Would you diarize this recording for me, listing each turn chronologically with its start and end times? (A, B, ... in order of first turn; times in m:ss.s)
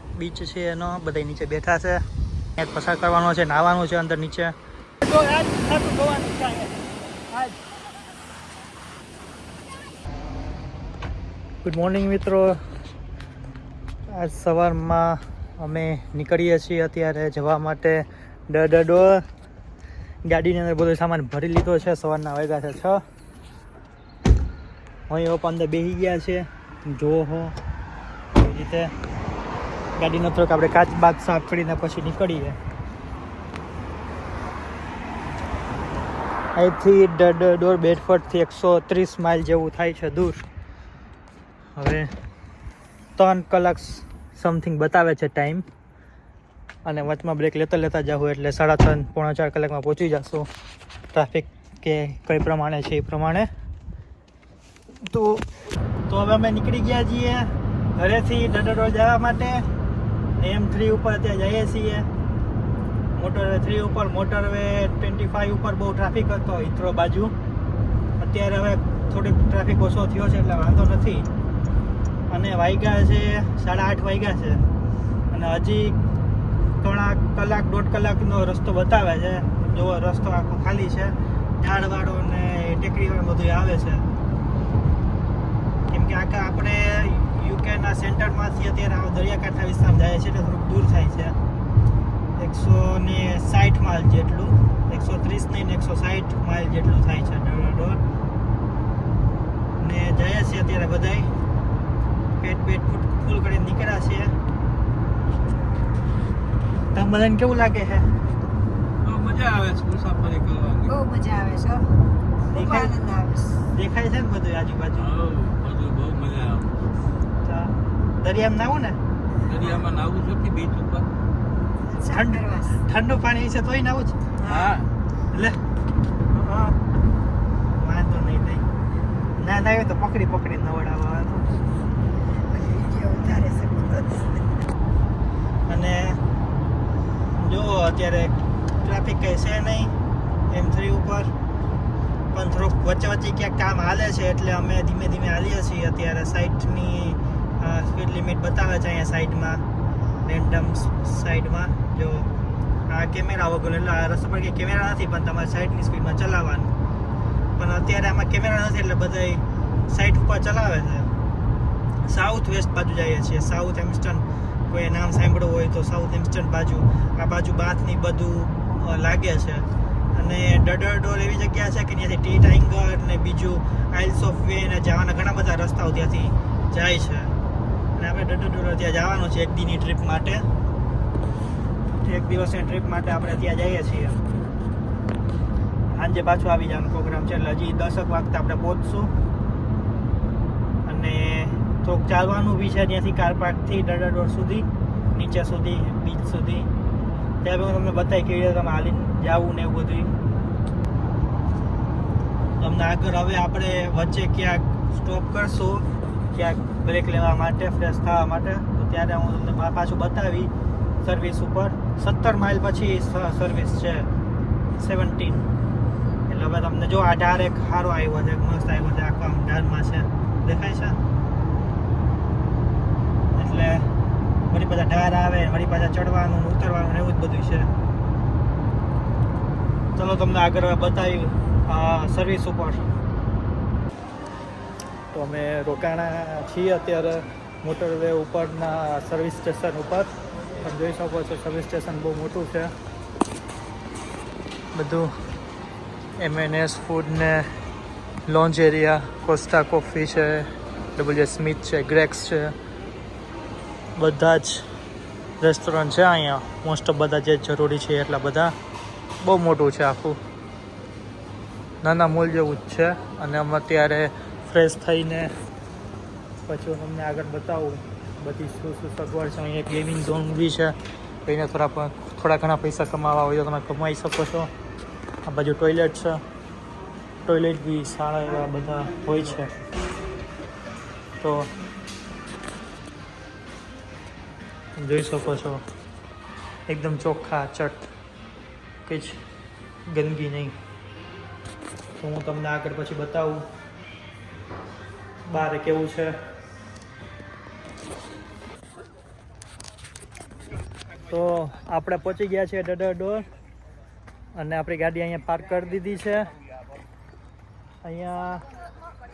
0:00.2-0:02.0 A
0:02.6-0:06.7 A
0:07.3-0:07.6 A
0:11.6-0:12.6 A
0:14.1-0:19.2 A
0:20.3-0:23.0 A
0:25.1-0:27.6 A
0:28.3-0:28.9 A
0:30.0-0:32.6 A
0:36.6-0:40.4 A
0:41.8-0:42.1 A
0:43.2-0:45.6 A
0:46.8-0:50.5 A
0:51.1-0:53.5 A
0:55.1-0:55.5 A
0:56.1-0:57.4 A
0:58.0-0:59.6 A
1:00.4-1:02.1 A
1:03.2-1:07.3 A
1:08.2-1:11.3 A
1:12.3-1:14.6 A
1:15.3-1:16.0 A
1:16.8-1:24.1 A
1:25.9-1:31.4 A
1:32.4-1:38.0 A
1:39.8-1:41.3 A
1:42.4-1:44.3 A
1:47.0-1:48.1 A
1:49.0-1:51.0 B
1:50.9-1:51.9 C
1:52.5-1:53.6 C
1:52.5-1:53.0 A
1:53.7-1:55.1 A
1:55.0-1:56.7 B
1:57.4-1:59.0 A
1:59.4-2:01.1 B
2:01.8-2:02.8 C
2:02.0-2:04.2 A
2:04.4-2:04.8 C
2:04.4-2:04.9 B
2:05.3-2:05.6 A
2:06.3-2:06.8 A
2:07.8-2:08.6 A
2:09.4-2:11.5 A
2:12.3-2:14.5 C
2:15.7-2:16.2 A
2:17.4-2:19.9 A
2:20.5-2:21.3 A
2:22.3-2:29.6 A
2:30.3-2:32.3 A
2:32.9-2:36.7 A
2:37.6-2:41.1 A
2:42.1-2:57.3 A
2:58.0-3:00.4 A
3:02.0-3:04.2 A
3:05.9-3:09.1 A
3:10.9-3:16.7 A
3:17.4-3:20.1 A
3:22.6-3:30.5 A
3:31.0-3:34.1 A
3:34.8-3:35.5 A
3:36.3-3:41.0 A
3:43.4-3:43.9 A
3:44.5-3:47.7 A
3:50.0-3:52.8 A
3:55.1-4:02.7 A
4:04.7-4:05.1 A
4:06.2-4:07.5 A
4:08.3-4:12.6 A
4:14.0-4:14.6 A
4:15.4-4:18.5 A
4:19.2-4:20.2 A
4:21.8-4:25.3 A
4:26.5-4:30.7 A
4:31.3-4:34.5 A
4:35.3-4:36.2 A
4:37.3-4:39.5 A
4:41.2-4:41.5 A
4:44.8-4:45.6 A
4:46.7-4:47.9 A
4:48.9-4:49.2 A
4:49.9-4:50.6 A
4:52.0-4:53.5 A
4:55.3-4:56.2 A
5:01.1-5:03.3 A
5:04.4-5:06.3 A
5:07.8-5:08.4 A